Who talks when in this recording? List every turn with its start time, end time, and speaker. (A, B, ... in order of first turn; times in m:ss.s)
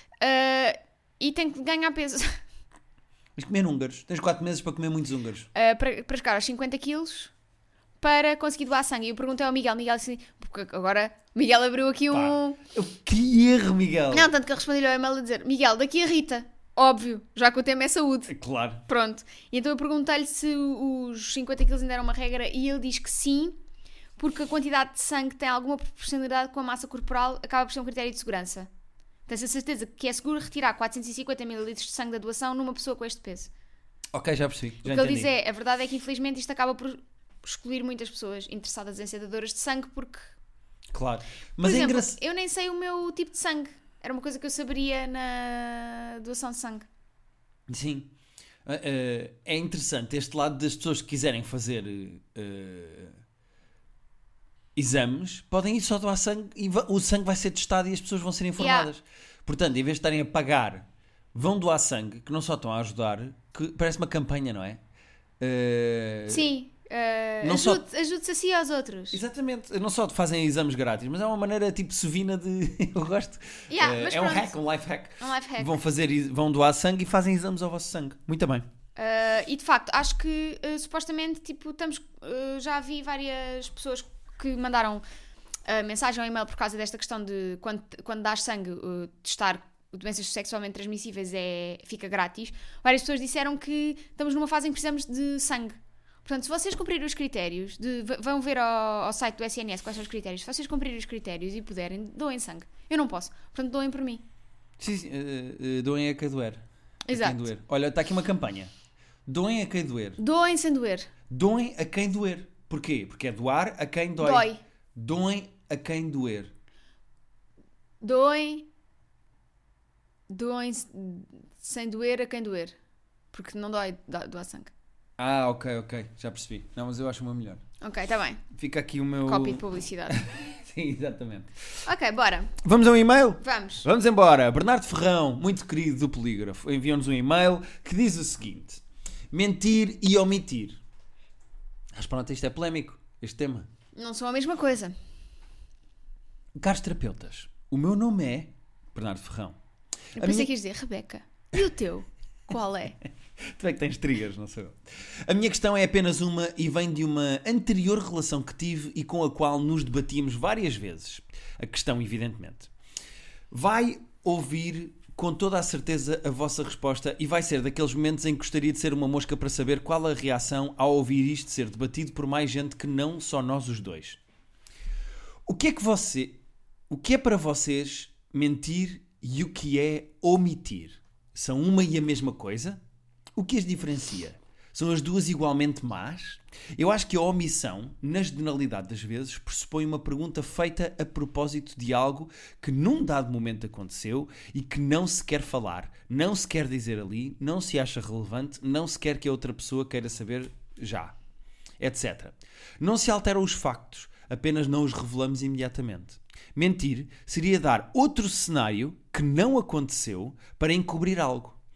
0:00.2-0:02.4 A
0:03.4-0:05.5 B
0:05.5-0:07.3 A
0:08.0-0:12.6 A
0:12.1-0:14.3 B
0:14.1-0:18.3 A
0:18.3-0:18.8 B
0:18.9-0:23.6 A
0:24.2-0:28.7 A
0:29.3-0:33.5 A
0:34.1-0:35.3 B
0:34.8-0:40.3 A
0:40.9-0:42.2 B
0:41.6-0:46.9 A
0:47.7-0:48.1 B
0:48.6-0:53.2 B
0:54.8-1:04.8 B
0:58.6-0:58.9 A
1:05.4-1:06.5 B
1:06.3-1:09.2 A
1:07.4-1:07.8 B
1:09.1-1:18.6 B
1:13.7-1:14.5 A
1:15.2-1:15.8 A
1:19.0-1:25.0 A
1:25.6-1:44.2 A
1:44.8-1:48.7 B
1:47.1-1:47.5 A
1:49.2-1:50.2 B
1:50.2-1:51.1 A
1:51.3-1:56.5 B
1:54.2-1:54.6 A
1:58.0-1:58.7 A
2:00.3-2:02.8 A
2:03.3-2:04.7 A
2:05.2-2:07.6 B
2:07.8-2:08.4 A
2:08.5-2:11.5 B
2:09.2-2:10.2 A
2:11.8-2:12.6 A
2:12.6-2:20.8 B
2:13.4-2:13.8 A
2:21.9-2:23.7 B
2:24.0-2:24.9 A
2:26.6-2:29.6 B
2:30.2-2:33.0 A
2:30.2-2:30.5 B
2:33.4-2:42.7 B
2:43.5-2:54.2 B
2:55.4-3:02.8 B
3:03.4-3:21.1 B
3:21.8-3:31.6 B